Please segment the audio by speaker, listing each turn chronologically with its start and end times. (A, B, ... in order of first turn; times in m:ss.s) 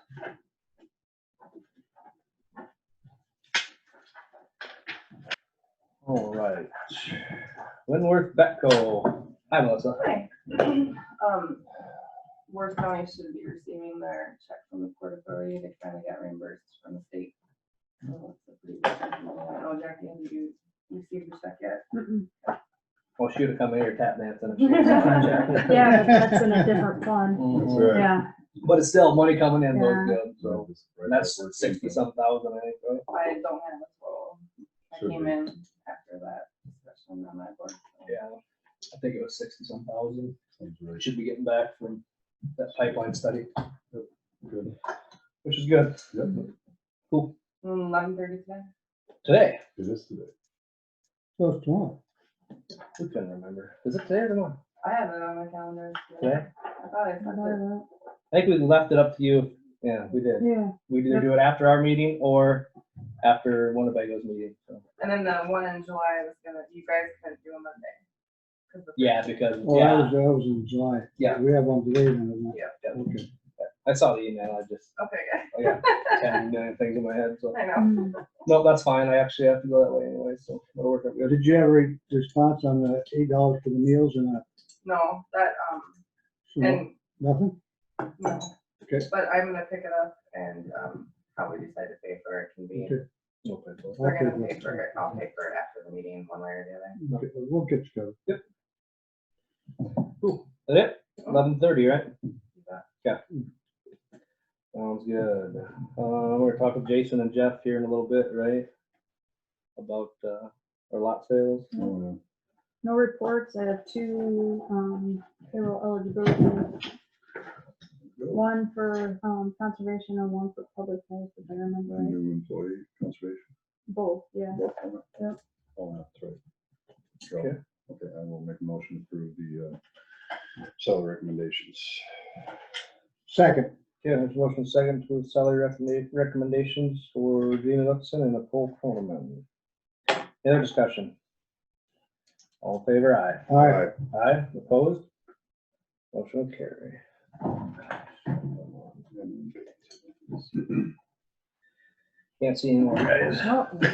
0:06.0-0:07.2 A
0:07.9-0:10.2 A
0:10.0-0:11.6 B
0:12.5-0:17.3 B
0:18.0-0:21.9 B
0:21.9-0:22.3 C
0:23.2-0:26.2 A
0:24.7-0:25.6 B
0:25.6-0:28.3 C
0:27.4-0:28.1 A
0:27.6-0:28.1 D
0:28.6-0:33.0 A
0:29.7-0:30.2 C
0:30.4-0:32.0 D
0:33.1-0:38.2 B
0:35.0-0:35.4 D
0:38.1-0:38.4 A
0:38.9-0:40.4 A
0:40.6-0:41.0 D
0:40.9-0:42.0 A
0:42.5-0:43.5 A
0:43.9-0:44.8 D
0:45.4-0:46.5 A
0:47.6-0:48.7 B
0:49.2-0:49.6 A
0:49.8-0:50.3 D
0:51.4-0:52.0 E
0:53.0-0:54.6 A
0:54.8-0:57.6 B
0:56.2-0:56.5 A
0:57.2-0:57.9 C
0:58.3-1:02.7 A
1:00.4-1:01.3 C
1:03.2-1:04.8 A
1:05.0-1:08.0 B
1:08.7-1:09.3 B
1:09.0-1:10.2 A
1:09.6-1:13.3 E
1:13.6-1:15.0 A
1:15.0-1:16.2 B
1:15.5-1:17.6 A
1:17.5-1:18.3 B
1:17.8-1:18.1 C
1:18.4-1:21.4 A
1:21.2-1:24.4 E
1:24.8-1:26.0 B
1:26.5-1:27.6 E
1:26.6-1:26.9 B
1:28.2-1:28.5 B
1:29.0-1:33.0 B
1:32.8-1:33.0 E
1:33.4-1:34.1 A
1:34.0-1:34.9 E
1:34.0-1:37.0 B
1:37.0-1:38.2 E
1:40.2-1:42.1 A
1:42.6-1:42.8 B
1:44.7-1:48.7 A
1:49.8-1:51.7 A
1:51.8-1:52.2 D
1:52.8-1:56.8 C
1:58.2-1:58.4 D
1:58.3-2:02.2 C
2:01.9-2:03.5 D
2:03.9-2:04.6 C
2:04.5-2:05.0 D
2:05.8-2:06.4 D
2:07.3-2:09.8 D
2:10.8-2:12.0 D
2:13.3-2:13.7 E
2:14.0-2:19.4 A
2:20.4-2:21.1 A
2:22.6-2:25.0 A
2:23.5-2:23.9 E
2:23.6-2:23.9 D
2:26.1-2:29.0 A
2:29.1-2:29.7 D
2:32.4-2:33.6 A